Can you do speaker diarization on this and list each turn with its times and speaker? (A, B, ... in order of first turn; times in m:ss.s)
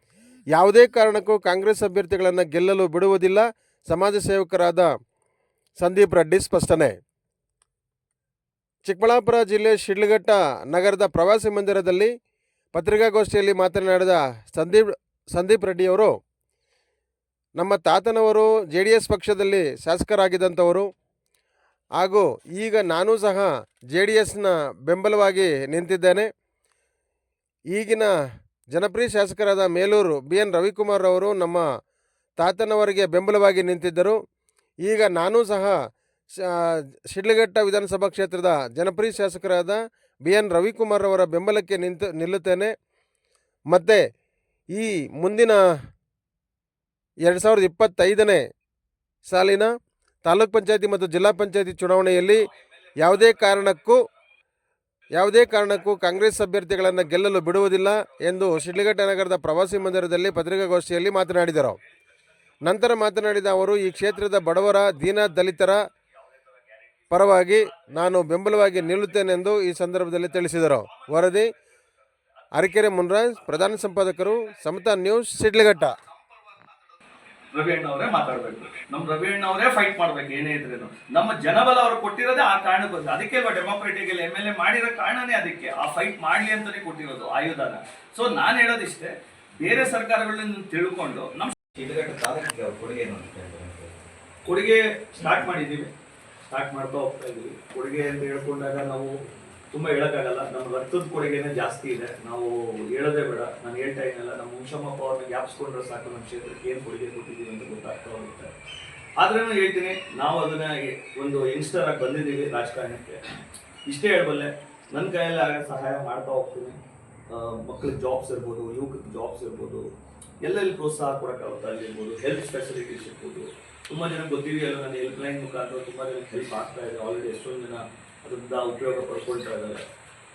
0:00.5-0:04.9 A
0:05.8-0:07.0 A
0:08.8-0:12.1 A
0:12.7-0:16.1 A
0:17.6-0:20.9 A
0:22.0-0:26.3 A
0:27.7-0:28.1 A
0:28.7-0:31.6 A
0:32.4-0:34.2 A
0:34.8-0:35.7 A
0:36.4-0:42.7 A
0:43.7-0:44.0 A
0:44.7-0:45.6 A
0:47.2-0:48.4 A
0:49.3-0:49.7 A
0:50.2-0:52.4 A
0:53.0-0:54.0 A
0:55.2-1:01.8 A
1:02.6-1:05.8 A
1:06.9-1:07.8 B
1:07.1-1:11.5 A
1:08.5-1:09.4 B
1:10.4-1:11.4 B
1:12.6-1:15.9 A
1:17.5-1:31.6 B
1:31.8-1:34.1 C
1:34.4-1:35.9 B
1:36.5-1:39.1 B
1:39.7-1:48.5 B
1:49.2-1:53.2 B
1:53.9-1:56.8 B
1:57.3-1:59.9 B
2:00.4-2:09.8 B